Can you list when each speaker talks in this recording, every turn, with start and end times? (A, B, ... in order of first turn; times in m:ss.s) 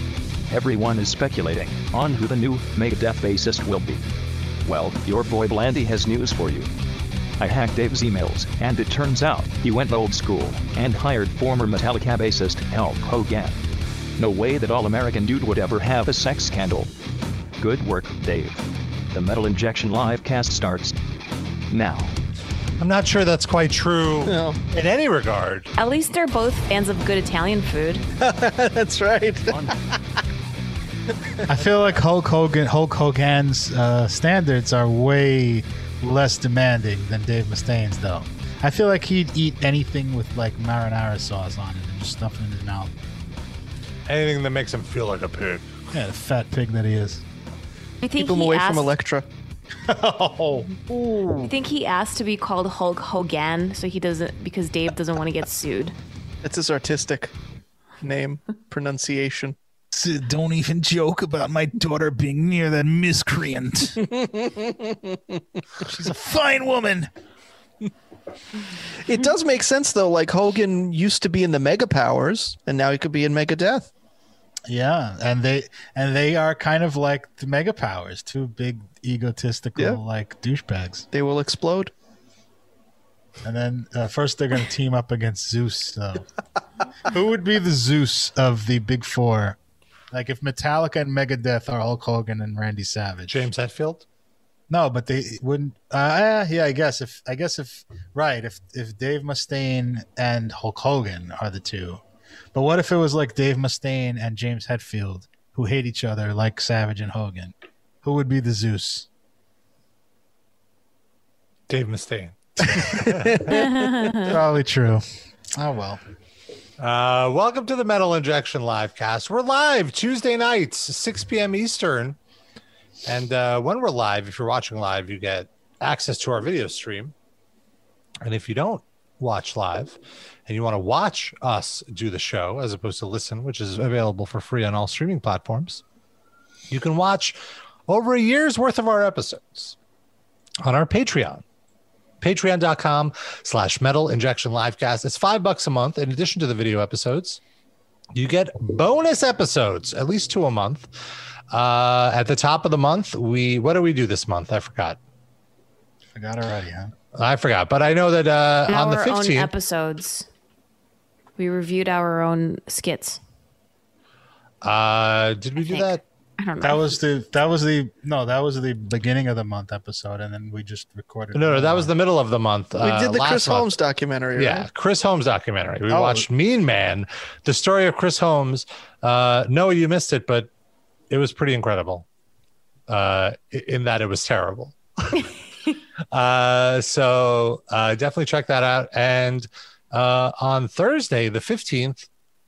0:00.5-0:04.0 A
0:04.6-0:06.7 A
0:07.4-0:13.6 A
0:14.2-0:16.9 A
0:17.6-0:18.6 A
0:19.1-0:21.0 A
0:21.7-0:22.1 A
0:22.8-0:25.7 B
0:24.2-0:24.6 C
0:25.8-0:28.0 D
0:28.2-0:29.7 C
0:31.5-0:42.9 E
0:44.1-0:45.8 B
0:45.9-0:47.2 E
0:48.0-0:48.9 D
0:48.2-0:49.2 C
0:49.9-0:51.5 E
0:51.4-0:55.9 D
0:56.4-0:57.3 C
0:58.0-0:59.6 C
0:59.9-1:04.0 E
1:04.0-1:05.4 C
1:05.8-1:07.1 E
1:09.0-1:13.9 C
1:14.7-1:21.1 E
1:21.1-1:21.9 C
1:23.4-1:26.3 E
1:27.1-1:29.6 E
1:30.1-1:33.4 E
1:33.3-1:34.0 B
1:34.7-1:42.0 E
1:42.5-1:49.1 E
1:51.7-1:53.5 B
1:52.8-1:54.1 C
1:53.5-1:54.3 D
1:54.2-1:56.0 E
1:56.8-2:02.2 B
2:03.0-2:07.1 B
2:08.2-2:15.8 B
2:16.7-2:17.4 B
2:17.9-2:19.7 B
2:20.6-2:21.4 B
2:22.2-2:27.4 B
2:28.1-2:30.9 B
2:31.5-2:35.0 B
2:36.1-2:36.9 E
2:37.1-2:39.5 B
2:38.7-2:40.2 D
2:41.4-2:43.2 D
2:44.6-2:46.0 B
2:45.6-2:46.9 D
2:46.6-2:51.9 E
2:51.3-2:53.7 B
2:52.8-2:54.7 C
2:54.3-3:00.5 B
2:55.9-2:56.3 E
3:01.1-3:02.0 B
3:02.9-3:05.3 B
3:06.1-3:12.1 B